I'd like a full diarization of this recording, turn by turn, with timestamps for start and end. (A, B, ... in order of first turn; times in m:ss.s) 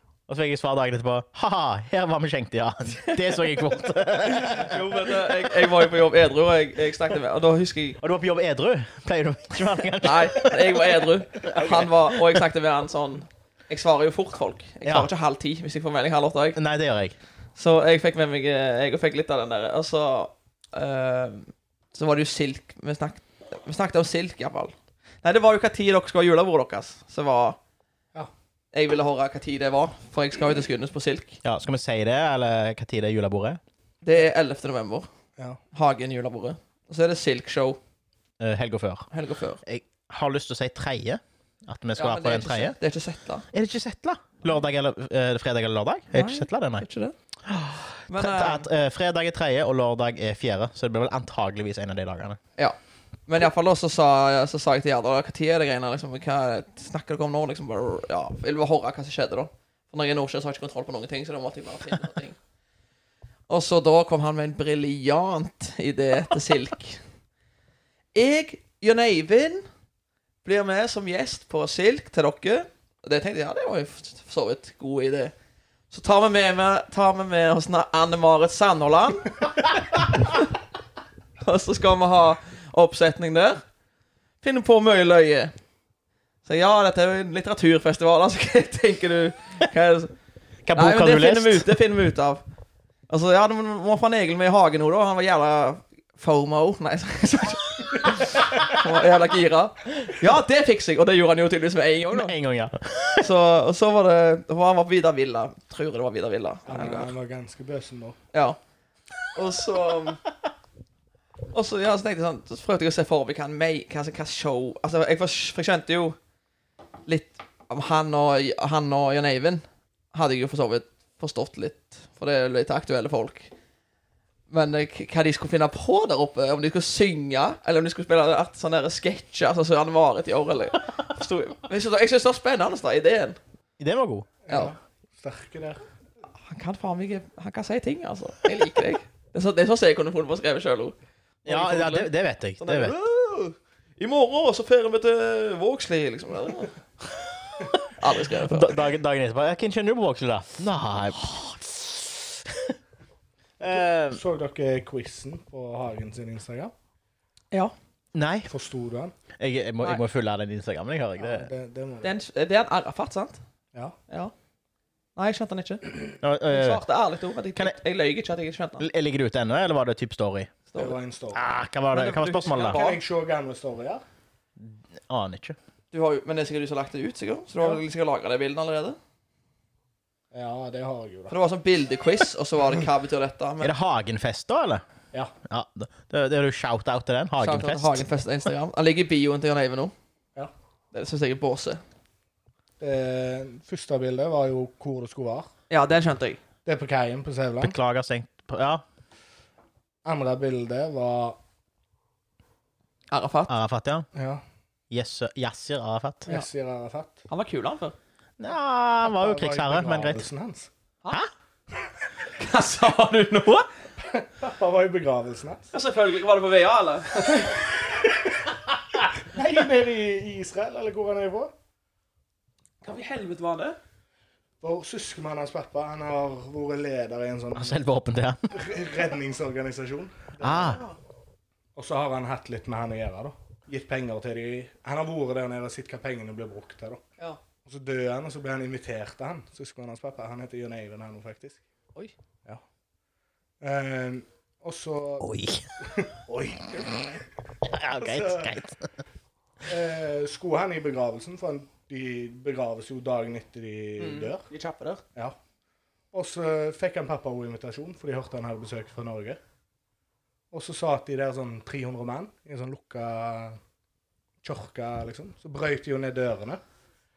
0:00.3-0:05.7 A
0:04.3-0:08.0 B
0:08.0-0:12.4 A
0:10.0-0:16.6 B
0:14.8-0:15.1 A
0:16.5-0:17.2 A
0:17.6-0:27.6 B
0:28.7-0:31.4 B
0:31.4-0:33.6 A
0:34.0-0:35.1 B
0:35.7-0:37.8 B
0:38.4-0:39.1 A
0:39.1-0:39.6 B
0:39.6-0:42.8 A
0:42.0-0:43.5 B
0:43.5-0:46.8 A
0:46.1-0:47.1 B
0:47.4-0:52.4 A
0:48.1-0:48.6 B
0:52.6-1:02.4 B
1:03.5-1:07.0 B
1:08.1-1:09.6 B
1:10.4-1:15.3 B
1:15.9-1:20.4 B
1:21.4-1:23.6 B
1:24.4-1:25.5 B
1:26.4-1:30.1 B
1:30.6-1:31.7 A
1:30.7-1:32.4 B
1:33.1-1:42.3 B
1:42.1-1:43.3 A
1:43.2-1:47.1 B
1:46.6-1:48.2 C
1:48.3-1:48.6 B
1:49.3-1:50.2 B
1:51.5-1:56.2 B
1:57.1-2:03.5 B
2:04.5-2:13.4 B
2:13.8-2:14.3 A
2:14.4-2:15.9 C
2:16.3-2:26.8 B
2:21.4-2:22.9 A
2:27.9-2:28.8 B
2:28.3-2:32.8 A
2:33.6-2:36.7 C
2:33.6-2:34.2 A
2:38.1-2:38.5 A
2:38.5-2:39.1 C
2:39.4-2:41.5 A
2:41.2-2:42.1 C
2:42.0-2:43.4 B
2:45.2-2:48.9 B
2:46.2-2:46.8 A
2:48.8-2:50.5 A
2:50.8-2:51.5 C
2:51.3-2:52.9 A
2:51.9-2:53.0 B
2:52.6-2:54.0 C
2:54.6-2:55.6 A
2:55.9-2:59.0 B
3:00.3-3:01.3 C
3:01.3-3:03.7 B
3:03.6-3:04.8 A
3:05.5-3:08.0 A
3:07.4-3:09.9 B
3:10.9-3:11.8 B
3:12.8-3:15.5 C
3:15.7-3:16.4 B
3:16.6-3:17.8 C
3:17.6-3:18.8 A
3:20.0-3:21.4 C
3:23.1-3:23.5 B
3:23.5-3:24.1 A
3:24.1-3:24.4 C
3:24.9-3:26.3 A
3:26.3-3:27.2 C
3:27.3-3:28.0 B
3:28.4-3:30.3 A
3:29.0-3:30.7 C
3:32.4-3:33.7 B
3:34.0-3:35.7 C
3:35.7-3:37.5 B
3:37.2-3:38.5 C
3:39.1-3:41.5 C
3:42.8-3:43.8 B
3:44.6-3:47.8 C
3:47.5-3:48.5 A
3:48.5-3:50.8 C
3:50.4-3:50.8 A
3:50.4-3:51.0 B
3:51.7-3:57.0 C
3:57.6-4:01.6 C
4:03.6-4:05.3 C
4:05.2-4:05.7 A
4:05.8-4:07.2 C
4:07.6-4:08.8 A
4:08.0-4:08.6 C
4:09.6-4:14.4 C
4:14.0-4:15.0 B
4:16.1-4:19.4 C
4:20.5-4:23.6 C
4:24.4-4:26.6 C